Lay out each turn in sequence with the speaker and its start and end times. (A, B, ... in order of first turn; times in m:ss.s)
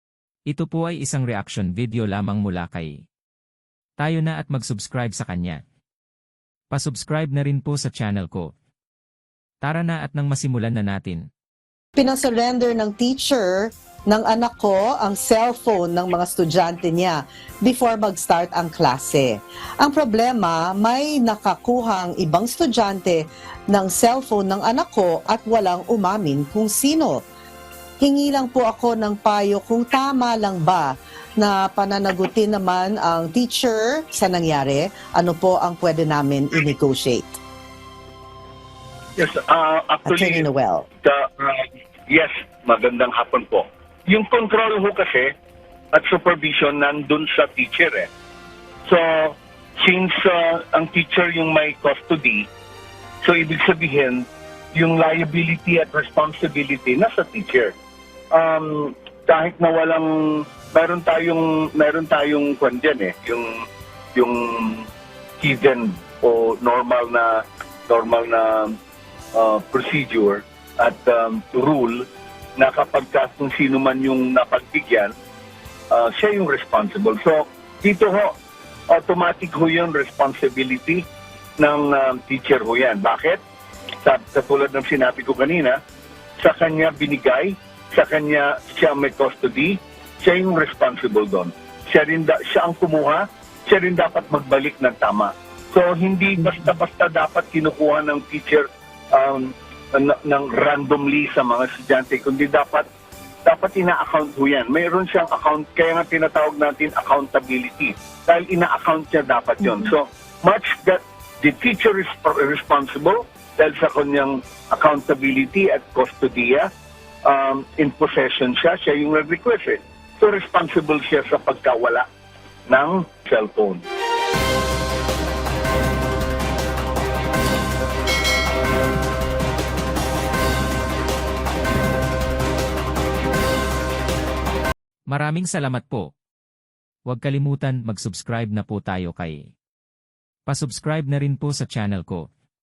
0:00.5-0:02.9 A
0:04.0-0:05.6 A
0:06.7-0:08.5 A
0:09.6-0:11.2 A
0:12.0-0:27.2 B
0:28.0-0:37.3 B
0:39.2-0:40.4 C
0:40.0-0:40.8 B
0:41.0-0:45.3 C
0:45.9-0:48.1 C
0:48.8-0:52.5 C
0:53.2-0:57.7 C
0:58.3-1:03.6 C
1:04.2-1:04.9 C
1:05.4-1:08.8 C
1:09.3-1:12.0 C
1:12.6-1:15.1 C
1:15.9-1:18.3 C
1:18.9-1:21.0 C
1:21.6-1:23.4 C
1:24.0-1:25.8 C
1:26.4-1:42.9 C
1:43.4-1:56.7 C
1:57.2-2:02.1 C
2:02.7-2:03.8 C
2:15.1-2:16.1 A
2:17.0-2:19.5 A
2:20.5-2:22.3 A